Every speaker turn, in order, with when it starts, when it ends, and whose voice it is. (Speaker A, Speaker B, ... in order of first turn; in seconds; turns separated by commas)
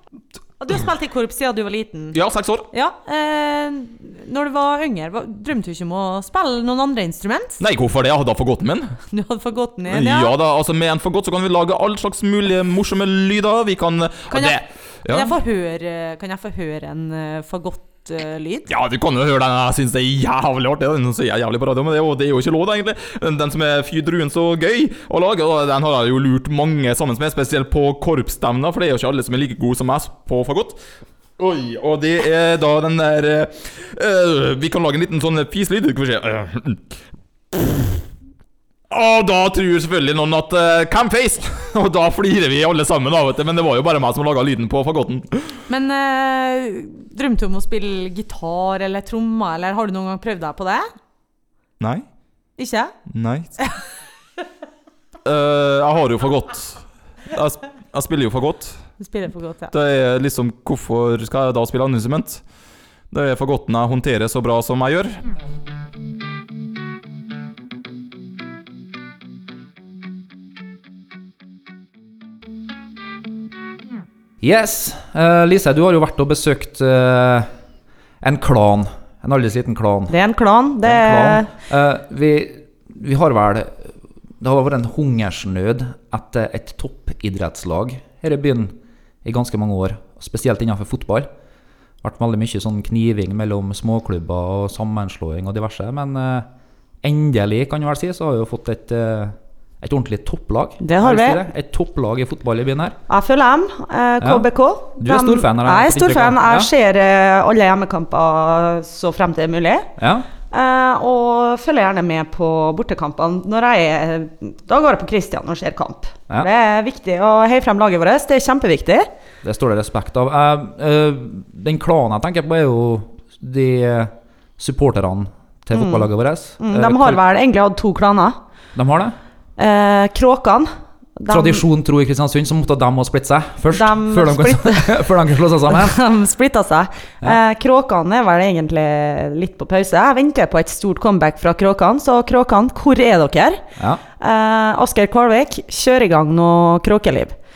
Speaker A: 0.6-2.2, Speaker B: 2.1-2.6, Speaker A: 2.7-7.6, Speaker B: 7.6-8.9, Speaker A: 9.1-10.3, Speaker B: 9.9-15.3, Speaker A: 14.3-18.7, Speaker B: 18.7-30.8, Speaker B: 31.4-36.8, Speaker B: 37.5-37.9, Speaker B: 38.9-45.5, Speaker A: 45.7-50.9, Speaker B: 51.8-52.0, Speaker A: 52.6-52.9, Speaker B: 53.1-53.5, Speaker B: 55.2-58.8, Speaker A: 59.0-59.7, Speaker B: 59.7-62.4, Speaker B: 63.1-65.2, Speaker C: 74.4-77.5, Speaker C: 78.2-80.2, Speaker A: 80.1-81.5, Speaker C: 80.8-91.3, Speaker C: 92.0-96.5, Speaker C: 97.0-103.0, Speaker A: 100.8-101.4, Speaker A: 103.1-109.9, Speaker C: 104.2-106.7, Speaker C: 110.0-110.3, Speaker A: 110.5-119.1, Speaker C: 119.4-127.2, Speaker A: 125.7-128.4, Speaker C: 128.7-129.2, Speaker A: 129.6-131.6, Speaker C: 131.3-136.0, Speaker A: 133.7-135.0, Speaker A: 135.7-143.6, Speaker C: 143.8-144.0, Speaker A: 144.2-147.3